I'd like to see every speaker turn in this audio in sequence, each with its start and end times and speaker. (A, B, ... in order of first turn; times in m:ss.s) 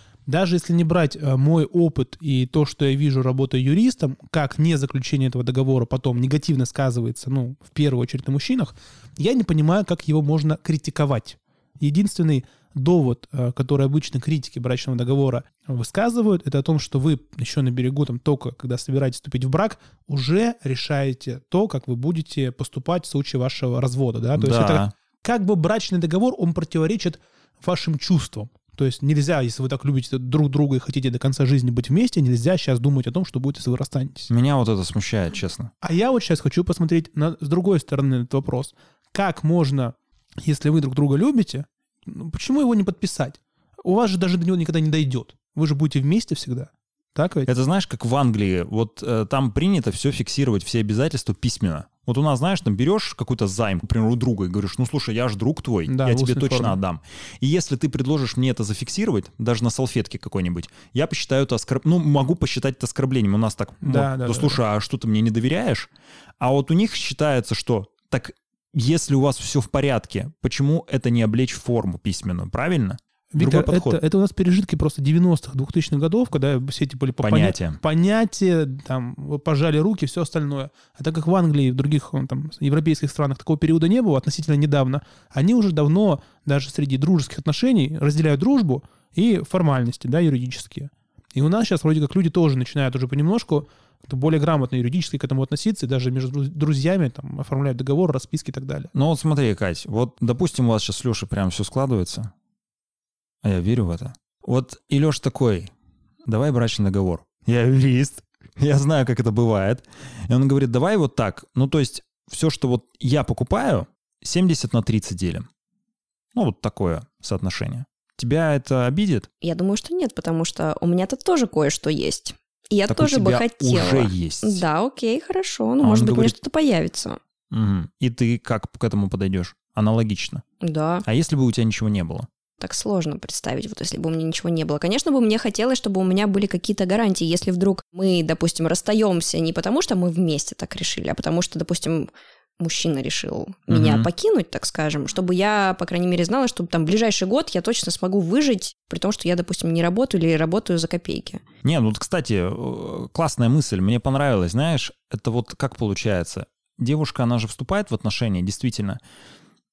0:00.2-0:34.3 A
0:24.3-0:24.9 B
0:34.3-0:35.7 B
0:35.8-0:47.5 A
0:47.5-1:14.0 B
0:55.9-0:56.8 A
1:03.8-1:04.6 A
1:13.3-1:38.9 A
1:17.2-1:17.8 B
1:38.9-1:42.3 B
1:43.4-1:45.7 B
1:46.2-1:55.5 B
1:56.3-1:59.3 B
1:59.4-2:07.2 C
2:02.9-2:04.6 B
2:05.8-2:06.4 B
2:07.5-2:10.4 B
2:10.6-2:11.0 C
2:11.0-2:12.3 B
2:12.6-2:31.4 C
2:23.7-2:24.1 B
2:31.6-2:39.0 B